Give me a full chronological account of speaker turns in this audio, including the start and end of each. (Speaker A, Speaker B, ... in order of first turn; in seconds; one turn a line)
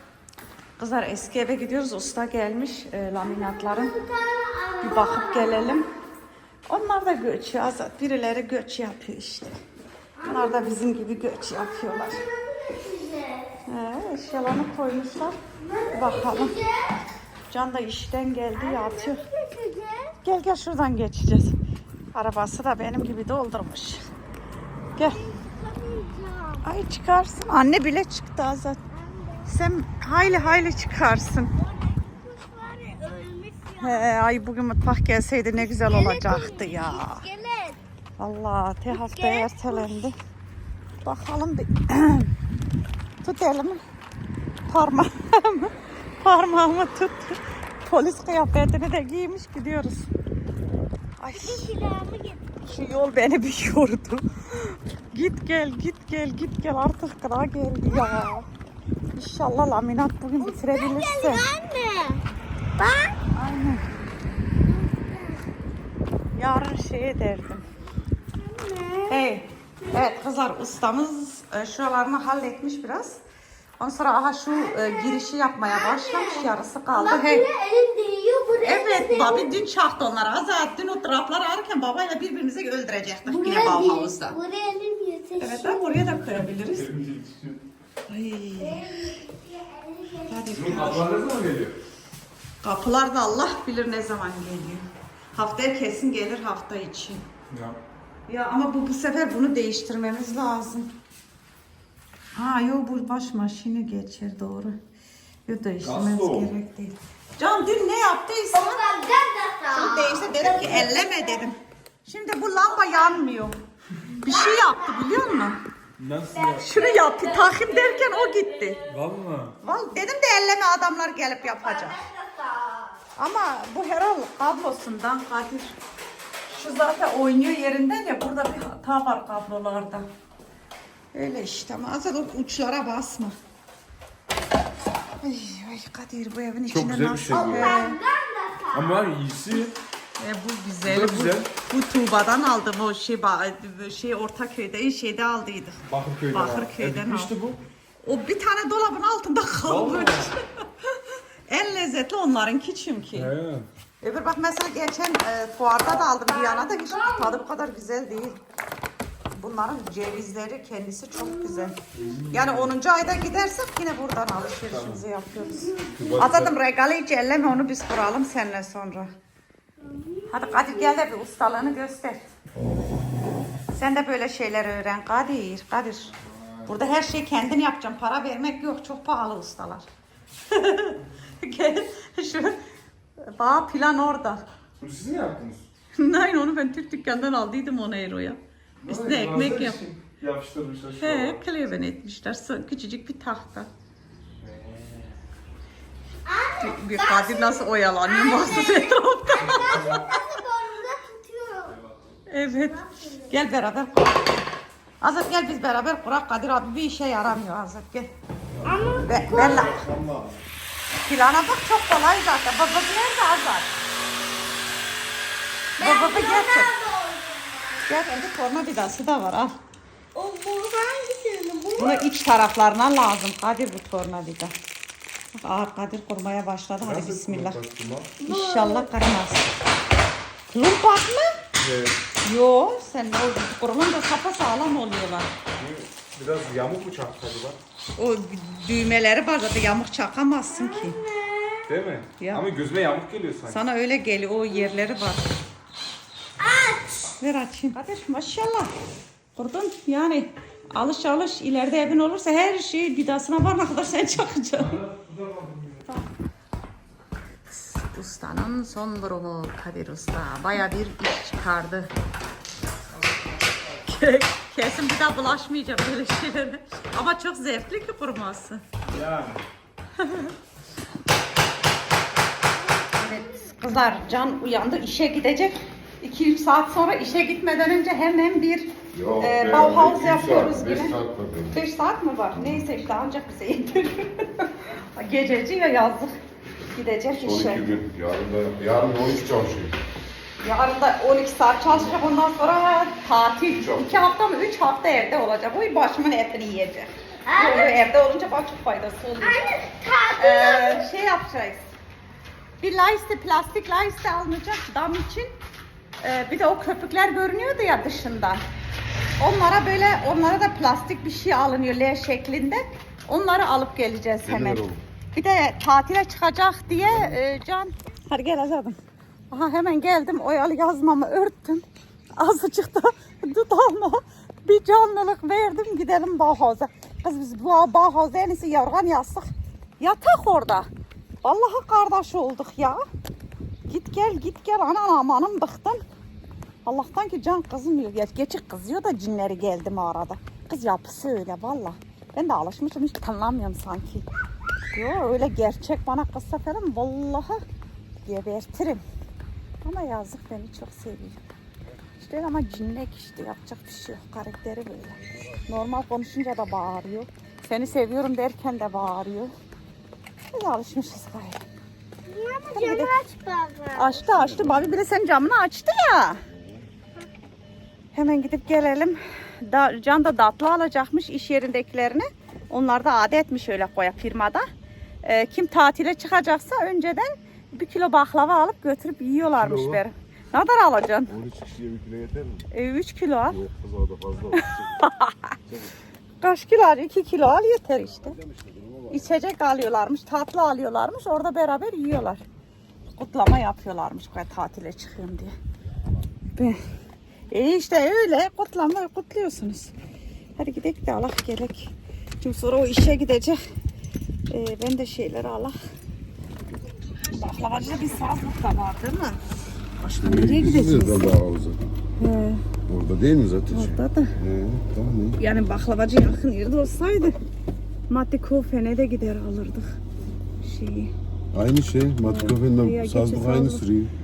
Speaker A: 0.8-4.0
Speaker B: 3.2-5.8
Speaker A: 4.8-5.9
Speaker A: 6.7-9.6
Speaker B: 10.2-13.6
Speaker A: 10.2-12.2
Speaker A: 13.7-15.3
Speaker B: 15.6-16.9
Speaker A: 15.9-16.6
Speaker A: 17.5-19.2
Speaker B: 18.6-20.1
Speaker A: 20.2-21.6
Speaker A: 22.1-24.0
Speaker B: 25.0-26.7
Speaker A: 26.6-28.8
Speaker B: 28.9-29.5
Speaker A: 29.5-31.5
Speaker B: 31.6-34.1
Speaker A: 33.8-37.3
Speaker B: 35.6-37.8
Speaker A: 38.2-40.2
Speaker B: 38.9-40.0
Speaker A: 41.0-42.3
Speaker A: 43.2-43.8
Speaker A: 44.7-50.1
Speaker A: 51.2-51.7
Speaker B: 51.4-52.4
Speaker A: 52.6-58.5
Speaker A: 59.1-61.5
Speaker B: 60.4-62.2
Speaker B: 62.8-63.2
Speaker A: 63.3-63.9
Speaker B: 64.6-65.5
Speaker A: 66.3-67.7
Speaker B: 68.4-69.2
Speaker A: 69.1-73.2
Speaker A: 73.8-77.5
Speaker B: 75.6-79.5
Speaker A: 78.6-84.4
Speaker B: 83.2-86.0
Speaker A: 85.4-86.9
Speaker C: 86.6-87.6
Speaker A: 88.1-89.2
Speaker B: 88.6-90.7
Speaker A: 90.3-91.1
Speaker C: 90.5-91.8
Speaker A: 92.6-97.2
Speaker C: 97.5-97.8
Speaker A: 98.3-100.9
Speaker A: 102.3-104.8
Speaker A: 105.5-109.1
Speaker C: 105.8-106.5
Speaker B: 108.5-110.9
Speaker A: 109.7-113.6
Speaker A: 114.1-115.6
Speaker B: 114.5-115.0
Speaker C: 116.0-116.7
Speaker B: 116.3-118.7
Speaker A: 116.6-118.8
Speaker C: 118.9-119.5
Speaker A: 119.6-122.1
Speaker B: 121.4-123.0
Speaker A: 123.2-125.7
Speaker A: 126.5-130.1
Speaker A: 131.1-133.3
Speaker A: 135.2-138.0
Speaker C: 136.7-137.8
Speaker B: 137.3-139.1
Speaker C: 138.7-139.7
Speaker A: 140.2-147.3
Speaker C: 140.8-141.5
Speaker C: 145.9-147.6
Speaker A: 148.0-153.3
Speaker C: 149.6-150.3
Speaker C: 153.1-153.7
Speaker A: 154.0-158.4
Speaker B: 156.4-157.1
Speaker A: 159.3-161.8
Speaker C: 162.0-162.7
Speaker A: 162.3-169.1
Speaker C: 165.9-166.5
Speaker B: 169.8-170.3
Speaker A: 170.3-172.3
Speaker A: 173.7-176.1
Speaker A: 176.7-179.9
Speaker A: 180.5-182.6
Speaker A: 183.2-184.4
Speaker C: 184.8-185.7
Speaker A: 185.9-189.8
Speaker C: 188.8-191.4
Speaker A: 191.0-193.7
Speaker C: 194.4-195.1
Speaker B: 196.2-201.8
Speaker A: 196.6-200.1
Speaker C: 199.3-200.2
Speaker A: 202.3-204.4
Speaker B: 202.5-203.3
Speaker A: 205.0-208.1
Speaker B: 208.6-209.7
Speaker A: 209.0-209.9
Speaker D: 209.1-210.4
Speaker A: 211.1-213.7
Speaker B: 215.8-217.9
Speaker A: 215.8-216.7
Speaker A: 217.9-219.6
Speaker B: 220.2-222.1
Speaker A: 221.8-224.5
Speaker A: 225.4-227.6
Speaker C: 226.8-228.1
Speaker B: 228.2-228.9
Speaker A: 228.2-229.5
Speaker A: 230.5-231.4
Speaker C: 231.6-232.0
Speaker A: 232.2-235.3
Speaker C: 235.6-237.6
Speaker A: 238.0-241.0
Speaker B: 240.5-241.7
Speaker C: 241.7-243.6
Speaker A: 242.2-242.4
Speaker A: 243.5-245.2
Speaker B: 246.4-247.2
Speaker A: 247.2-248.7
Speaker A: 249.4-254.8
Speaker C: 254.7-255.8
Speaker A: 257.5-261.9
Speaker A: 263.7-268.6
Speaker C: 268.9-269.4
Speaker A: 270.0-270.3
Speaker A: 272.9-281.0
Speaker D: 278.9-281.6
Speaker A: 281.5-286.1
Speaker A: 286.7-287.7
Speaker D: 287.2-289.8
Speaker A: 290.4-299.4
Speaker B: 297.3-297.8
Speaker B: 299.2-300.9
Speaker A: 300.2-301.7
Speaker A: 302.6-305.3
Speaker A: 306.0-308.4
Speaker A: 309.2-318.8
Speaker D: 314.2-314.8
Speaker A: 319.3-321.6
Speaker A: 322.2-329.3
Speaker A: 329.8-330.7
Speaker A: 331.2-332.8
Speaker A: 333.7-335.8
Speaker A: 336.6-344.1
Speaker A: 344.7-347.4
Speaker A: 348.0-348.8
Speaker A: 349.6-351.2
Speaker A: 352.0-359.3
Speaker A: 360.3-361.4
Speaker B: 362.1-364.0
Speaker A: 362.5-362.9
Speaker A: 363.8-366.2
Speaker D: 364.1-364.7
Speaker D: 366.3-366.7
Speaker A: 367.9-374.5
Speaker A: 375.0-381.1
Speaker D: 379.4-379.8
Speaker D: 381.1-382.5
Speaker A: 382.5-383.4
Speaker D: 383.3-384.9
Speaker A: 384.4-385.3
Speaker D: 385.5-385.7
Speaker A: 386.2-388.2
Speaker D: 388.0-389.1
Speaker A: 388.9-392.2
Speaker A: 392.9-395.3
Speaker A: 396.4-396.6
Speaker A: 397.3-399.8
Speaker A: 400.4-403.4
Speaker A: 404.3-405.6
Speaker A: 407.1-409.2
Speaker D: 409.8-411.7
Speaker A: 409.9-411.1
Speaker A: 412.0-412.5
Speaker D: 412.7-415.2
Speaker A: 413.5-414.1
Speaker A: 415.2-417.2
Speaker A: 417.9-419.8
Speaker A: 420.4-420.9
Speaker D: 421.3-423.9
Speaker A: 422.0-423.7